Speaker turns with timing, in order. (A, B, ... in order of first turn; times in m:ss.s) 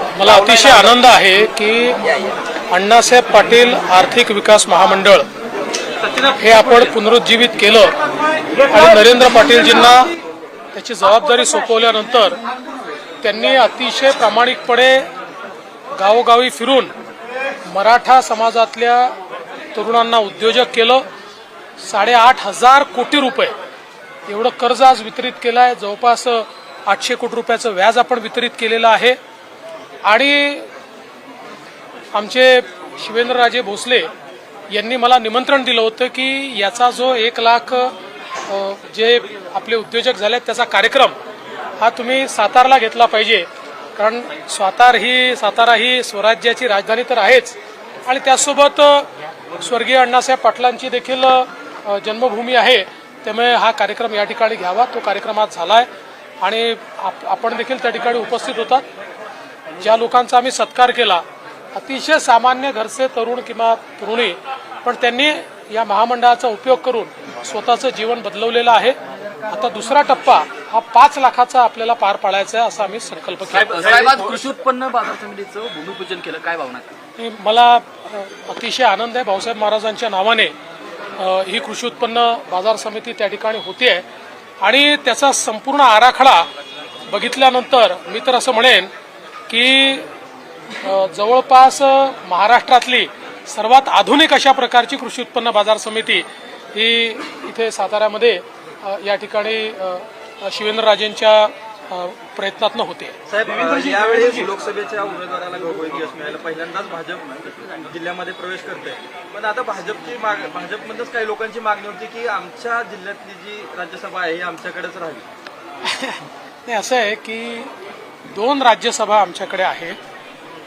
0:00.1-0:02.0 A
0:02.7-0:05.3 A
0:06.2-0:07.9 A
0:08.7-0:10.1 A
0:10.7-0:12.4 A
0:13.2-0:15.1 A
0:16.0-0:16.9 A
0:17.6-0:19.1 A
0:19.7-0:21.0 A
0:21.8-0:23.5 A
0:24.2-0:29.2 A
0:30.0-0:30.7 A
0:32.1-0:34.1 A
0:34.7-0:41.2 A
0:41.8-0:55.9 A
0:56.4-0:58.9 A
0:59.8-1:14.0 A
1:13.5-1:16.9 B
1:13.8-1:14.3 C
1:17.2-1:20.5 A
1:21.2-1:24.0 A
1:24.6-1:26.5 A
1:27.1-1:28.9 A
1:29.5-1:30.1 A
1:30.7-1:43.2 A
1:43.3-1:55.3 C
1:43.6-1:44.4 B
1:55.8-1:57.7 A
1:58.3-2:00.0 A